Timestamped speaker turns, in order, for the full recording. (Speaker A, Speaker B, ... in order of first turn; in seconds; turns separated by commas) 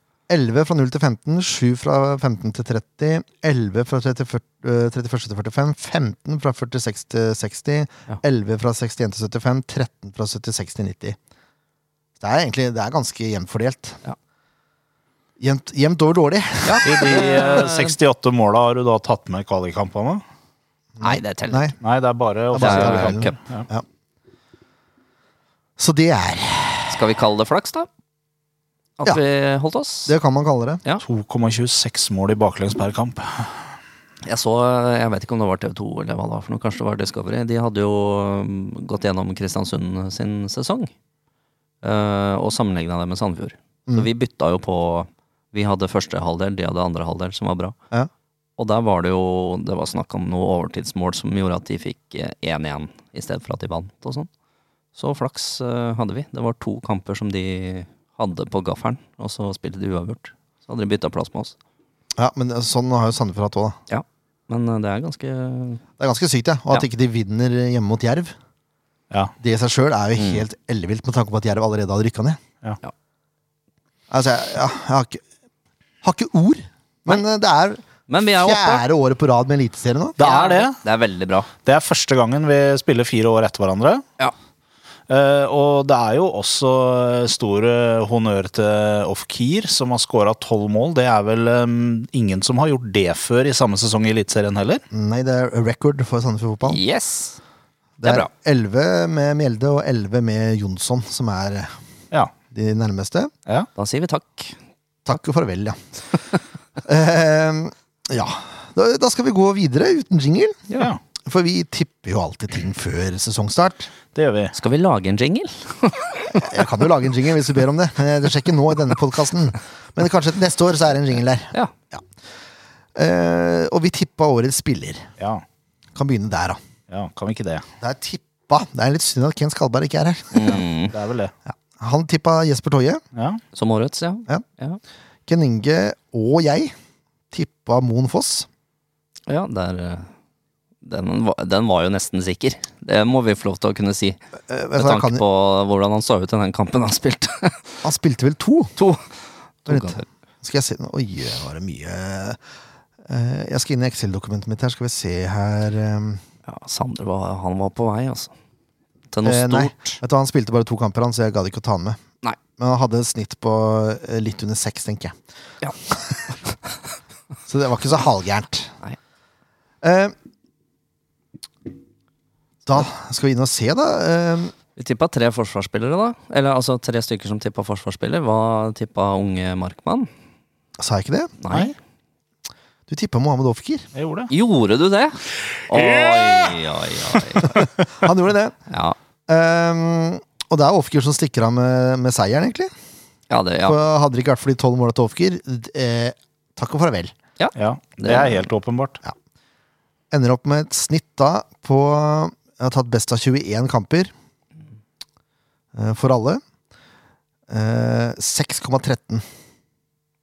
Speaker A: 0.3-11.2, Speaker A: 12.2-14.0, Speaker A: 15.4-17.3, Speaker B: 16.6-17.9, Speaker C: 16.8-20.2, Speaker A: 21.0-21.7, Speaker B: 21.0-21.7, Speaker C: 21.8-23.7, Speaker A: 22.5-23.8, Speaker B: 22.6-23.4, Speaker A: 25.8-27.0, Speaker B: 26.9-27.9, Speaker B: 29.0-30.1, Speaker A: 30.1-30.8, Speaker C: 31.0-33.7, Speaker B: 34.2-40.9, Speaker B: 41.8-47.8, Speaker B: 48.6-54.3, Speaker B: 54.9-61.5, Speaker A: 62.2-63.8, Speaker B: 63.9-65.8, Speaker A: 66.0-68.3, Speaker A: 69.4-72.4, Speaker B: 70.2-70.4, Speaker A: 74.1-75.2, Speaker A: 76.0-80.2, Speaker B: 78.1-78.8, Speaker C: 80.2-80.8, Speaker B: 80.2-81.5, Speaker C: 81.6-84.0, Speaker C: 85.1-94.8, Speaker A: 94.9-96.8, Speaker B: 96.7-97.4, Speaker A: 98.0-101.7, Speaker B: 98.0-98.3, Speaker A: 102.5-103.3, Speaker B: 103.8-104.5, Speaker A: 105.0-105.8, Speaker A: 106.8-110.6, Speaker A: 111.2-113.9, Speaker C: 114.1-114.5, Speaker B: 114.5-116.7, Speaker A: 116.3-122.0, Speaker A: 123.0-125.1, Speaker C: 125.2-125.4, Speaker A: 126.0-126.6, Speaker C: 126.9-127.6, Speaker A: 127.8-130.6, Speaker B: 130.3-130.9, Speaker C: 130.4-131.3, Speaker A: 131.5-133.0, Speaker C: 133.1-133.4, Speaker B: 133.5-134.8, Speaker A: 135.3-136.7, Speaker A: 137.3-138.5, Speaker B: 139.3-140.1, Speaker B: 140.8-144.2, Speaker A: 144.5-145.2, Speaker B: 144.8-147.8, Speaker A: 147.8-148.7, Speaker B: 148.8-149.1, Speaker B: 149.6-150.0, Speaker A: 149.7-152.4, Speaker A: 153.1-156.2, Speaker B: 156.4-158.3, Speaker B: 159.1-160.0, Speaker A: 159.2-162.0, Speaker A: 162.6-165.2, Speaker A: 167.5-168.7, Speaker A: 169.8-170.1, Speaker A: 172.7-174.5, Speaker B: 174.8-180.1, Speaker A: 180.8-181.4, Speaker B: 181.4-181.7, Speaker C: 181.5-181.7, Speaker A: 182.9-183.9, Speaker C: 183.9-184.3, Speaker B: 184.3-187.7, Speaker C: 185.7-186.5, Speaker A: 187.4-188.6, Speaker B: 188.7-189.0, Speaker A: 189.3-192.7, Speaker B: 193.3-193.8, Speaker A: 193.7-197.1, Speaker B: 197.4-198.5, Speaker C: 197.5-199.0, Speaker A: 200.1-204.1, Speaker A: 205.7-206.4, Speaker A: 207.5-209.2